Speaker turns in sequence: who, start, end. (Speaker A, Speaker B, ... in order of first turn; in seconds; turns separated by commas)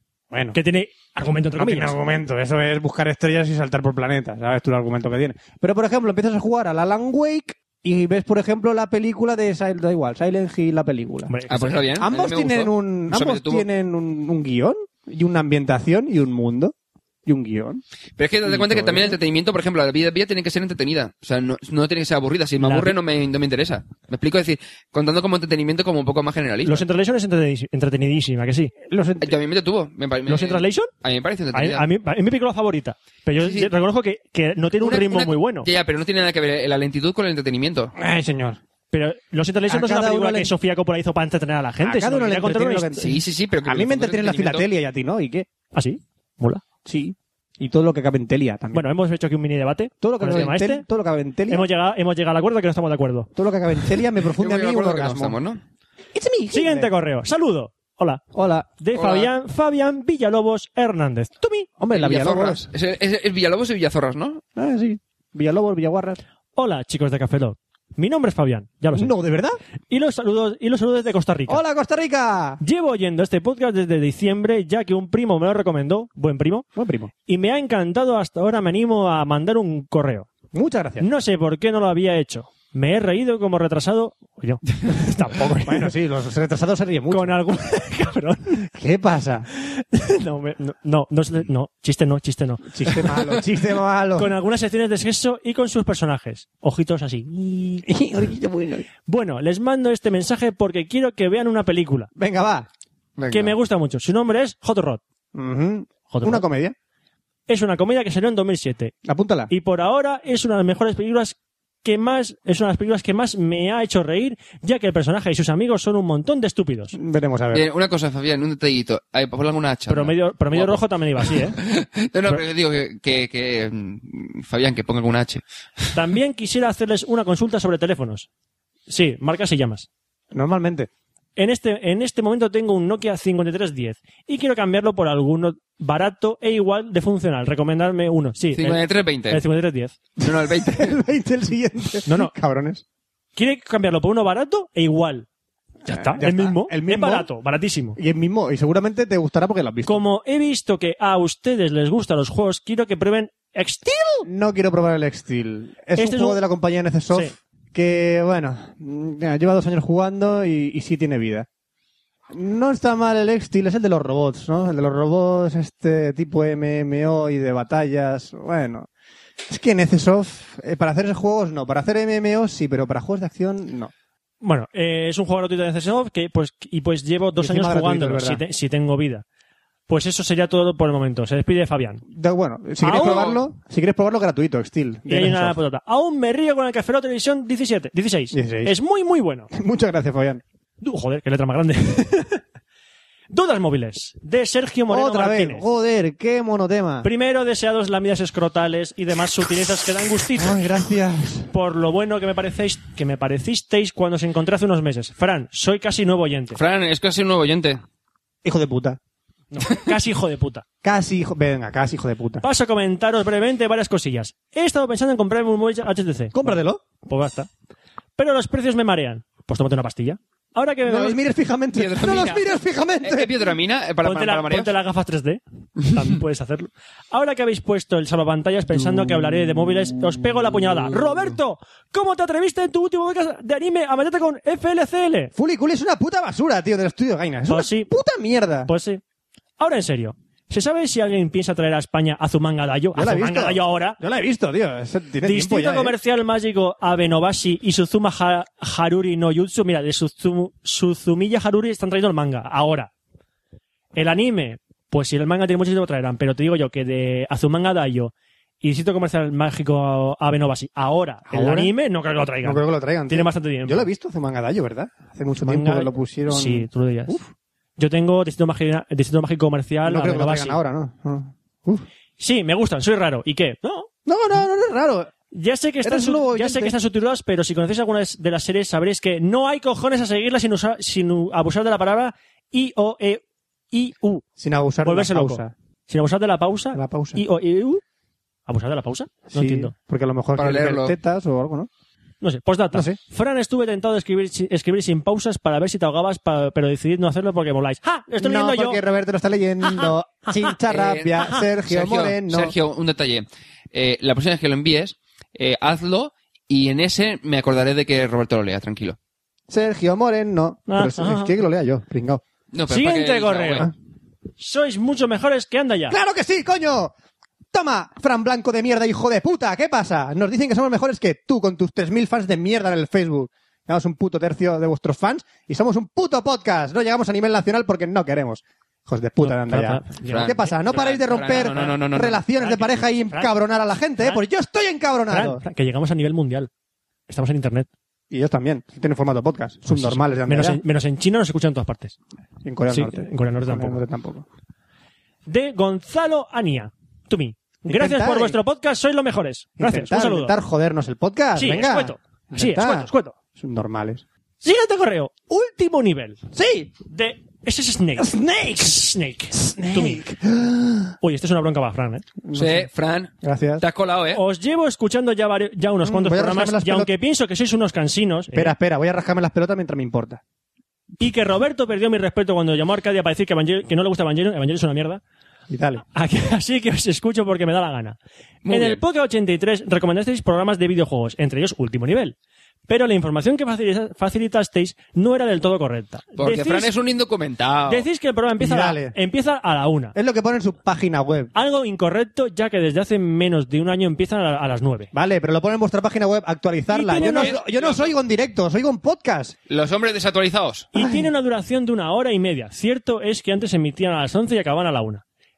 Speaker A: 0.3-0.6, Speaker B: 0.5-2.0, Speaker A: 1.6-11.3, Speaker B: 11.3-11.9, Speaker C: 11.5-13.7, Speaker A: 12.0-16.7, Speaker A: 17.2-17.8, Speaker C: 18.2-26.8, Speaker A: 18.4-19.2, Speaker B: 22.6-22.9, Speaker B: 26.6-28.7, Speaker A: 28.9-29.3, Speaker C: 29.2-31.8, Speaker B: 30.3-30.9, Speaker B: 31.5-35.7, Speaker C: 33.4-33.7, Speaker C: 34.8-37.9, Speaker A: 38.0-38.6, Speaker B: 38.9-43.0, Speaker A: 39.7-40.5, Speaker A: 41.8-45.5, Speaker C: 43.0-44.7, Speaker B: 45.7-46.6, Speaker A: 46.8-48.9, Speaker B: 48.7-50.8, Speaker A: 50.0-51.7, Speaker B: 51.5-53.3, Speaker A: 53.4-55.4, Speaker C: 54.4-55.6, Speaker A: 56.1-56.9, Speaker B: 56.5-58.2, Speaker A: 58.3-58.7, Speaker B: 58.8-61.7, Speaker C: 58.9-59.3, Speaker A: 61.8-62.6, Speaker C: 61.9-64.4, Speaker A: 64.5-66.2, Speaker B: 66.5-69.1, Speaker A: 68.9-69.6, Speaker B: 69.9-71.6, Speaker A: 71.5-72.6, Speaker B: 72.6-76.7, Speaker A: 76.8-77.1, Speaker B: 77.2-80.3, Speaker A: 80.5-81.1, Speaker B: 81.0-85.9, Speaker A: 85.6-87.4, Speaker B: 87.1-88.7, Speaker A: 88.7-89.5, Speaker B: 89.5-93.4, Speaker A: 92.7-94.4, Speaker B: 94.2-97.9, Speaker A: 97.8-98.9, Speaker B: 99.1-102.1, Speaker A: 102.2-103.6, Speaker B: 103.3-105.0, Speaker A: 105.3-106.7, Speaker B: 106.1-106.5, Speaker B: 107.5-108.9, Speaker A: 109.0-109.5, Speaker B: 109.5-117.0, Speaker A: 116.9-117.7, Speaker C: 117.5-125.9, Speaker B: 119.9-121.6, Speaker B: 125.9-128.3, Speaker B: 128.9-129.9, Speaker A: 130.3-130.9, Speaker B: 131.3-139.9, Speaker C: 138.5-139.4, Speaker C: 140.2-140.9, Speaker A: 140.2-142.8, Speaker B: 142.1-142.3, Speaker B: 143.3-145.3, Speaker B: 145.8-148.0, Speaker A: 145.9-147.3, Speaker A: 147.9-150.0, Speaker B: 149.8-154.3, Speaker A: 154.2-161.5, Speaker B: 156.0-156.4, Speaker A: 162.3-168.9, Speaker A: 169.4-173.9, Speaker B: 174.4-179.2, Speaker A: 177.4-178.4, Speaker B: 179.9-182.0, Speaker A: 182.1-185.6, Speaker B: 182.8-183.4, Speaker C: 182.9-183.4, Speaker B: 185.1-189.5, Speaker A: 188.3-188.8, Speaker A: 189.5-190.4, Speaker B: 190.8-192.4, Speaker B: 193.3-195.7, Speaker A: 194.9-197.1, Speaker B: 197.0-200.6, Speaker A: 200.3-201.5, Speaker B: 201.5-206.6, Speaker C: 206.5-207.8, Speaker A: 208.4-209.0, Speaker B: 209.5-210.6, Speaker A: 210.8-212.4, Speaker B: 212.4-217.5, Speaker A: 216.3-216.8, Speaker B: 218.2-221.2, Speaker A: 220.8-223.5, Speaker C: 221.7-224.7, Speaker B: 224.0-235.3, Speaker A: 235.3-238.7, Speaker B: 237.5-237.9, Speaker B: 238.7-239.0, Speaker B: 239.6-244.0, Speaker A: 242.9-245.9, Speaker B: 245.2-252.9, Speaker B: 253.9-263.9, Speaker A: 261.3-261.7, Speaker A: 262.4-267.3, Speaker B: 265.4-267.2, Speaker B: 267.8-270.6, Speaker A: 269.8-271.8, Speaker B: 272.2-273.9, Speaker A: 274.1-275.1, Speaker B: 275.3-284.2, Speaker A: 275.8-276.8, Speaker A: 284.4-285.5, Speaker B: 284.8-287.8, Speaker A: 286.7-287.2, Speaker B: 288.5-289.7, Speaker A: 289.3-291.7, Speaker C: 290.4-290.9, Speaker B: 292.2-298.8, Speaker A: 292.7-293.0, Speaker A: 298.2-302.5, Speaker B: 299.6-300.5, Speaker C: 300.7-309.0, Speaker A: 309.5-312.2, Speaker B: 310.7-311.3, Speaker C: 312.5-313.7, Speaker B: 312.7-313.7, Speaker B: 314.4-316.0, Speaker A: 315.9-316.9, Speaker A: 317.5-335.4, Speaker B: 329.2-330.7, Speaker C: 330.1-332.2, Speaker B: 331.2-331.8, Speaker B: 332.4-333.3, Speaker B: 335.1-336.5, Speaker B: 337.1-337.7, Speaker A: 338.1-340.6, Speaker B: 339.7-342.0, Speaker A: 342.4-344.2, Speaker B: 342.7-343.8, Speaker B: 345.2-350.4, Speaker A: 347.7-348.4, Speaker A: 349.6-354.0, Speaker B: 351.4-353.1, Speaker B: 354.4-356.2, Speaker A: 356.3-356.7, Speaker B: 356.9-360.0, Speaker A: 358.0-361.0, Speaker B: 361.0-362.0, Speaker A: 362.2-362.7, Speaker C: 362.3-364.2, Speaker A: 363.2-363.6, Speaker B: 364.1-368.5, Speaker A: 365.8-366.9, Speaker A: 368.3-370.2, Speaker B: 371.0-375.0, Speaker A: 375.5-375.8, Speaker B: 375.9-378.0, Speaker C: 378.4-378.8, Speaker B: 378.5-382.1, Speaker B: 382.7-386.7, Speaker C: 386.2-387.9, Speaker B: 387.7-389.9, Speaker A: 388.4-388.9, Speaker A: 389.9-391.3, Speaker B: 391.3-394.9, Speaker A: 394.9-399.4, Speaker B: 396.7-397.4, Speaker C: 396.9-397.9, Speaker C: 399.5-400.7, Speaker B: 400.7-405.0, Speaker A: 400.8-401.1